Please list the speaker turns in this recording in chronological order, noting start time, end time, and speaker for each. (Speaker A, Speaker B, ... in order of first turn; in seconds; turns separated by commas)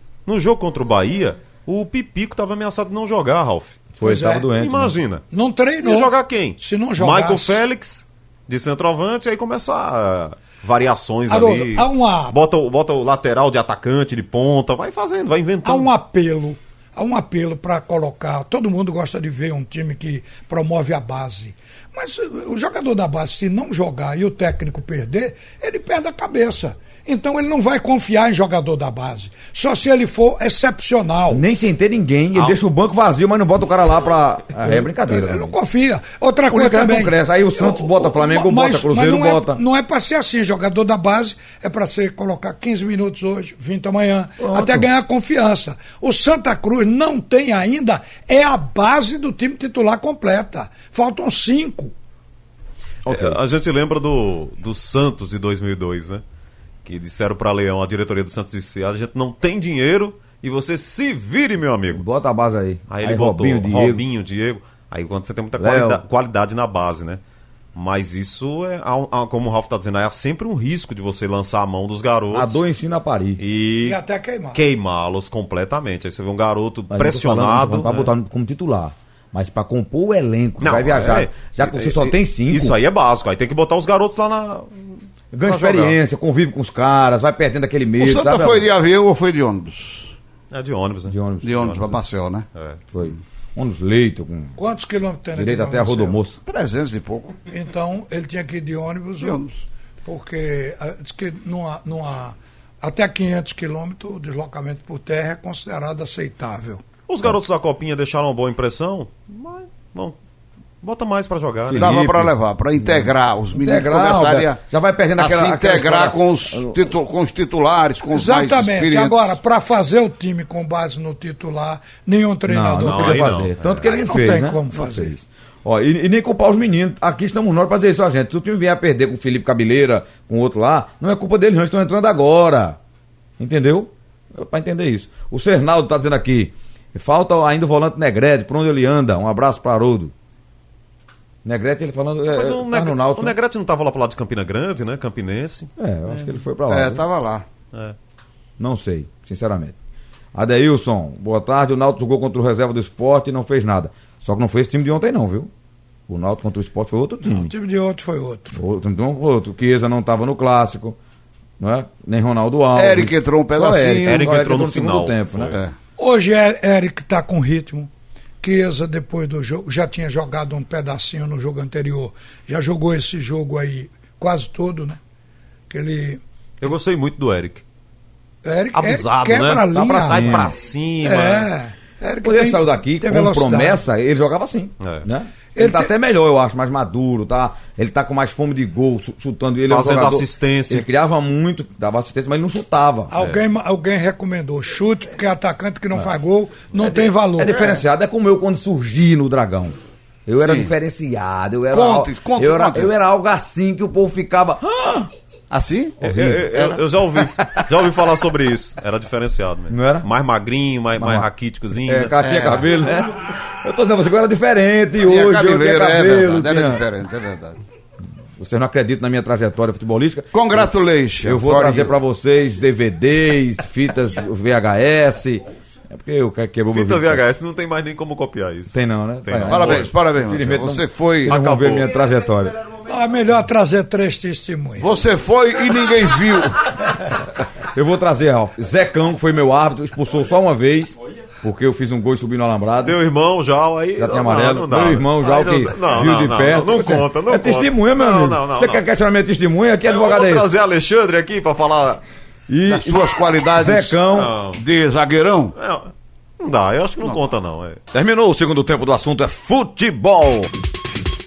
Speaker A: 0.3-3.9, Speaker B: 4.0-5.0, Speaker C: 4.0-4.5, Speaker A: 4.5-5.2, Speaker C: 5.3-7.6, Speaker A: 5.8-15.9, Speaker C: 11.3-12.4, Speaker C: 15.7-31.4, Speaker B: 31.3-35.5, Speaker C: 34.6-51.9, Speaker B: 36.5-39.6, Speaker B: 44.4-44.9, Speaker A: 53.0-56.2, Speaker B: 53.1-53.4, Speaker A: 56.9-62.0, Speaker B: 61.9-64.0, Speaker A: 62.9-67.2, Speaker B: 65.6-66.0, Speaker A: 67.8-72.6, Speaker B: 72.3-73.4, Speaker A: 73.4-74.0, Speaker C: 73.8-74.6, Speaker A: 74.5-78.1, Speaker B: 76.9-82.8, Speaker A: 80.6-86.0, Speaker B: 85.3-88.7, Speaker D: 88.0-90.1, Speaker A: 90.5-91.9, Speaker B: 91.1-91.7, Speaker D: 91.4-92.5, Speaker A: 92.5-92.8, Speaker B: 92.9-94.6, Speaker C: 94.6-96.2, Speaker B: 95.4-96.4, Speaker D: 96.5-97.4, Speaker C: 97.5-99.4, Speaker D: 99.2-99.6, Speaker C: 100.0-106.8, Speaker A: 107.1-110.2, Speaker A: 110.8-112.0, Speaker B: 111.7-116.8, Speaker D: 111.8-114.6, Speaker D: 115.2-119.4, Speaker C: 118.1-125.1, Speaker B: 122.5-132.8, Speaker A: 122.8-123.8, Speaker B: 133.4-140.1, Speaker B: 141.4-143.3, Speaker A: 142.3-145.7, Speaker B: 145.8-147.0, Speaker D: 146.7-147.4, Speaker B: 148.6-149.7, Speaker B: 150.3-155.5, Speaker B: 156.1-157.5, Speaker C: 157.2-158.6, Speaker B: 158.5-161.0, Speaker B: 161.6-165.6, Speaker D: 162.8-164.4, Speaker A: 164.1-165.6, Speaker D: 165.5-165.7, Speaker C: 166.0-167.9, Speaker C: 168.4-175.0, Speaker C: 175.7-176.2, Speaker A: 176.6-177.6, Speaker C: 178.4-183.8, Speaker A: 178.7-181.5, Speaker B: 180.1-180.6, Speaker B: 182.2-193.1, Speaker A: 184.8-185.1, Speaker C: 185.6-185.9, Speaker A: 189.7-190.9, Speaker C: 193.1-197.7, Speaker B: 196.8-205.1, Speaker D: 197.5-197.8, Speaker D: 200.4-200.7, Speaker D: 201.7-202.9, Speaker D: 205.5-207.7, Speaker A: 206.0-212.2, Speaker B: 206.0-206.5, Speaker B: 209.7-210.1, Speaker B: 211.0-216.8, Speaker D: 212.2-212.7, Speaker D: 215.0-217.6, Speaker B: 218.4-220.7, Speaker D: 220.3-221.9, Speaker B: 221.2-227.2, Speaker A: 226.7-229.9, Speaker B: 228.7-232.5, Speaker D: 229.5-231.3, Speaker A: 231.2-231.9, Speaker C: 232.8-235.0, Speaker D: 234.8-236.7, Speaker B: 237.7-243.0, Speaker A: 242.8-248.8, Speaker B: 244.0-250.5, Speaker A: 249.9-252.0, Speaker B: 252.5-254.3, Speaker D: 252.7-255.6, Speaker A: 254.1-254.6, Speaker A: 255.6-257.8, Speaker B: 257.9-260.5